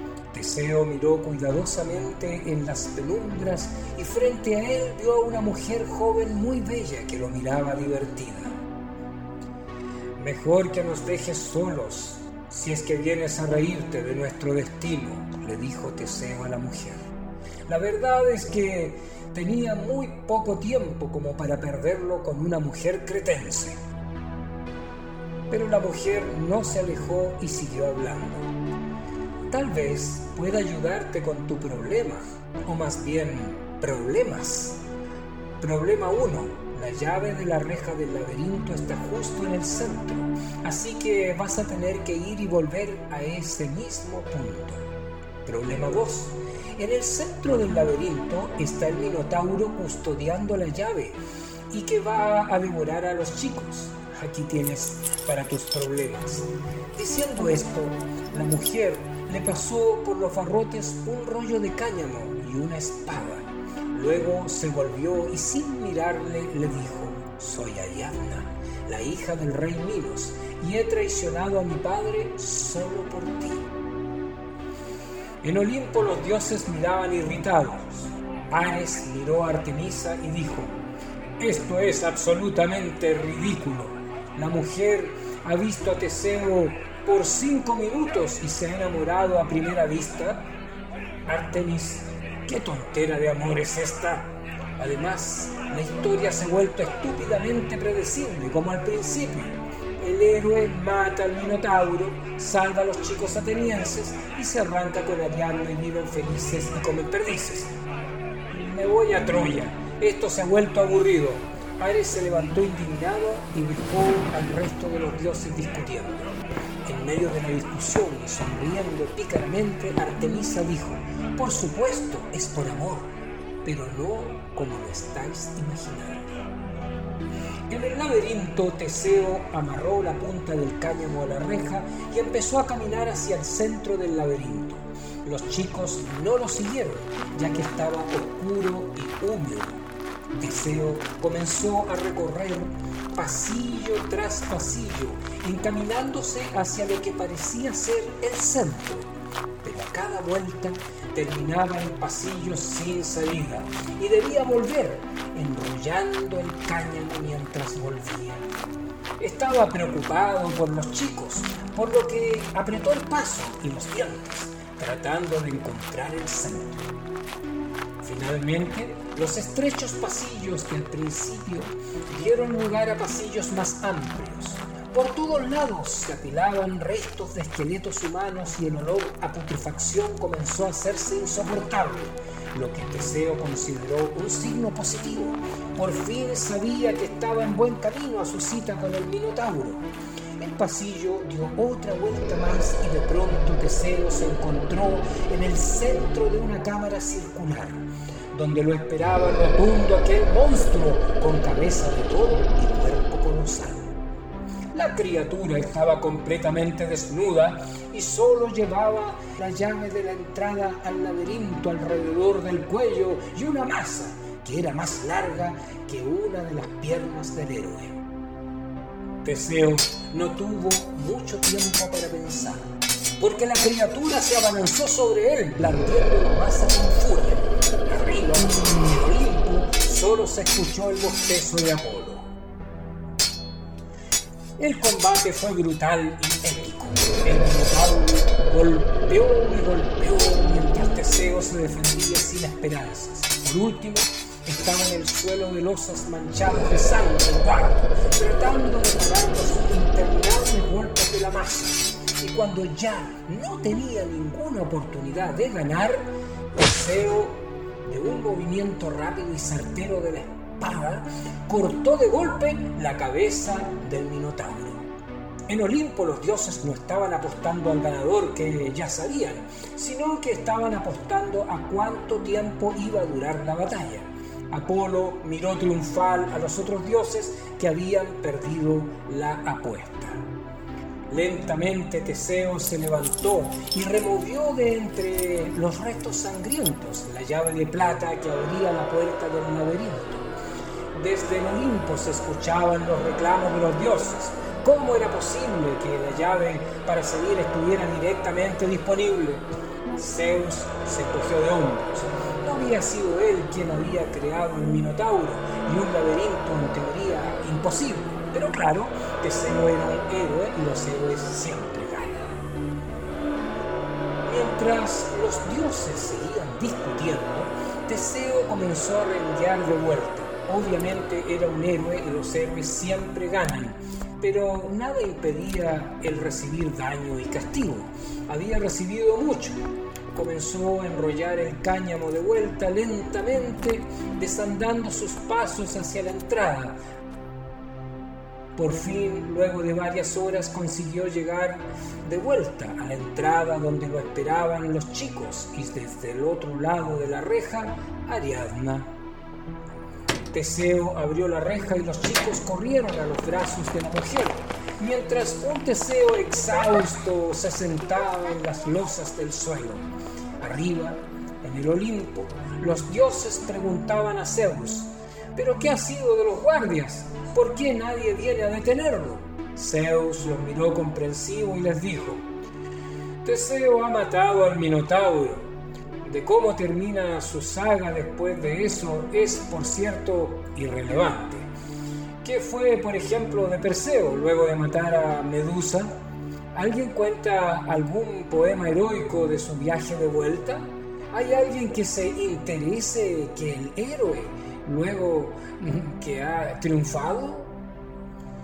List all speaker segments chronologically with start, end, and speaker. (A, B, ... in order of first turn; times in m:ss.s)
0:00.3-0:08.6 A
0:10.2-0:17.1 A
0:17.7-0:23.8 A
0:25.5-0:28.5 A
0:29.5-0:34.8 A
0:35.6-0:44.9 A
0:45.4-1:13.7 A
1:15.4-1:20.8 A
1:21.4-1:30.5 A
1:31.3-1:47.8 A
1:48.5-2:06.4 A
2:07.7-2:19.8 A
2:20.3-2:38.5 A
2:39.2-2:46.9 A
2:48.0-3:09.8 A
3:10.4-3:24.0 A
3:24.7-3:38.0 A
3:39.2-3:52.3 A
3:54.6-4:24.9 A
4:25.5-4:40.3 A
4:41.1-4:50.3 A
4:50.9-5:12.4 A
5:14.2-5:36.8 A
5:38.5-5:48.9 A
5:50.3-6:12.3 A
6:13.2-6:21.5 A
6:22.2-6:26.0 A
6:26.5-6:37.6 A